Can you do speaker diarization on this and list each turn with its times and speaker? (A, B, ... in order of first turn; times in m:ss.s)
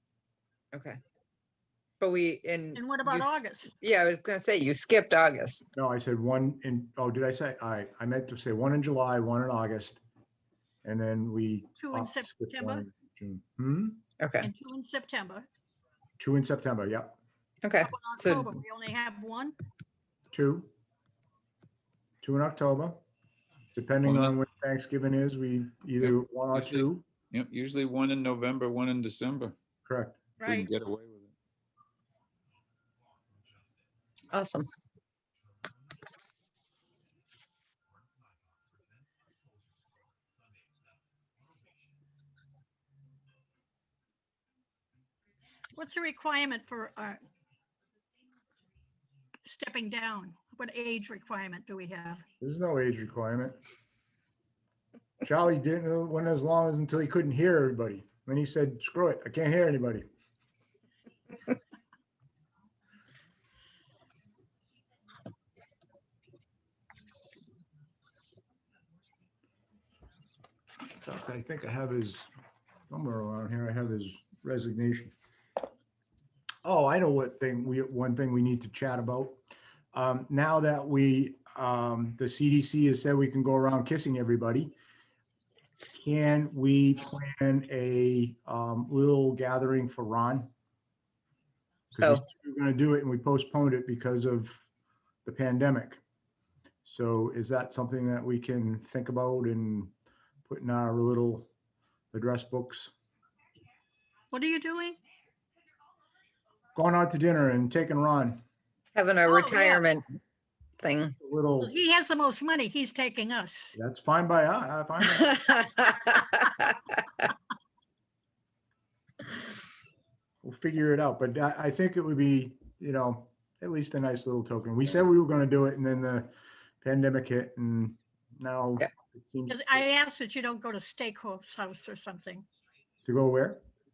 0:00.7-0:01.0 A
0:02.0-0:05.7 A
0:02.7-0:03.7 B
0:05.8-0:10.0 C
0:10.8-0:14.0 C
0:11.8-0:12.8 B
0:14.2-0:14.5 A
0:14.4-0:15.5 B
0:16.2-0:17.2 C
0:17.6-0:18.5 A
0:17.8-0:19.5 B
0:20.3-0:20.7 C
0:22.2-0:23.0 C
0:23.7-0:27.0 C
0:24.0-0:24.3 D
0:26.0-0:29.6 D
0:29.8-0:30.2 C
0:30.4-0:30.7 B
0:30.4-0:31.3 D
0:34.3-0:34.7 A
0:45.8-0:47.2 B
0:49.4-0:52.2 B
0:52.4-0:53.6 C
0:55.2-1:00.1 C
1:11.0-1:12.3 C
1:12.9-1:15.1 C
1:16.6-1:19.4 C
1:19.9-1:24.7 C
1:25.9-1:30.5 C
1:31.9-1:34.6 C
1:35.2-1:36.0 C
1:36.8-1:39.9 C
1:40.5-1:41.5 C
1:42.1-1:42.9 C
1:44.3-1:45.0 B
1:46.7-1:48.4 C
1:48.9-1:50.2 A
1:49.2-1:49.9 B
1:50.8-1:51.1 A
1:51.2-1:51.7 C
1:51.6-1:53.7 B
1:53.7-1:55.4 C
1:55.2-1:56.7 A
2:00.4-2:06.3 C
2:06.8-2:09.8 C
2:09.5-2:12.4 B
2:13.0-2:13.6 C